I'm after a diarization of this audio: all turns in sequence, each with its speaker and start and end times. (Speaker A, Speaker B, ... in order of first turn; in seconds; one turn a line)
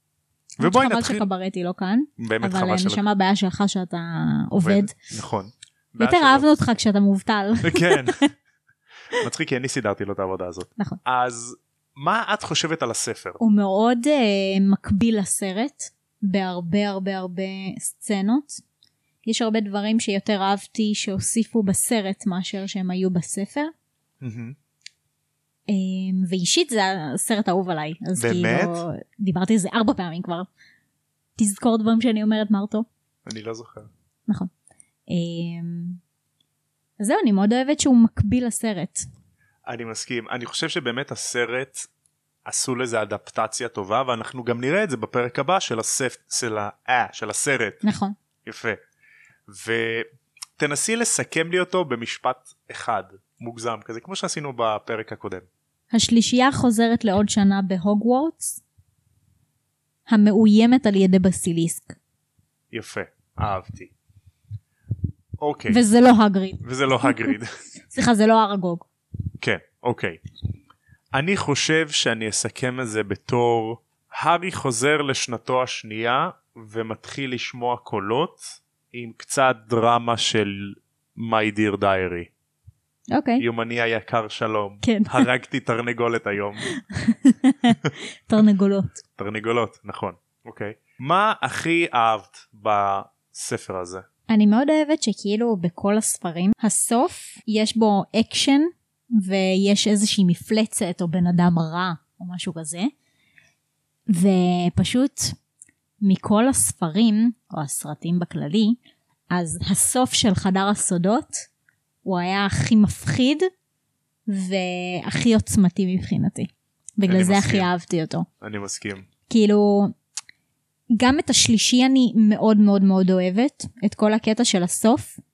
Speaker A: 0.6-4.9
Speaker B: 0.6-1.2
Speaker B: 2.2-3.0
Speaker B: 4.5-6.5
Speaker A: 6.0-8.3
Speaker B: 7.6-8.2
Speaker B: 9.1-13.4
Speaker A: 13.4-18.6
Speaker A: 19.2-23.7
Speaker B: 24.2-24.6
Speaker A: 25.7-30.5
Speaker B: 28.2-28.8
Speaker A: 31.4-32.9
Speaker B: 33.2-33.9
Speaker A: 35.1-36.0
Speaker A: 37.0-39.1
Speaker B: 39.6-41.9
Speaker B: 42.4-47.8
Speaker A: 47.8-48.1
Speaker B: 48.4-48.8
Speaker B: 49.5-55.5
Speaker A: 55.9-58.6
Speaker A: 60.1-62.0
Speaker B: 62.7-63.9
Speaker B: 65.4-65.8
Speaker A: 65.7-67.3
Speaker B: 66.6-67.6
Speaker A: 67.9-68.8
Speaker B: 69.4-70.2
Speaker B: 71.1-82.3
Speaker A: 83.1-83.4
Speaker B: 83.4-86.7
Speaker A: 84.8-85.3
Speaker A: 86.7-89.0
Speaker B: 89.2-94.0
Speaker A: 94.3-102.9
Speaker A: 104.1-105.3
Speaker A: 106.0-108.8
Speaker A: 109.3-111.5
Speaker A: 112.0-113.5
Speaker A: 114.3-118.2
Speaker B: 117.0-117.7
Speaker B: 118.4-119.1
Speaker A: 119.3-119.9
Speaker A: 120.9-125.2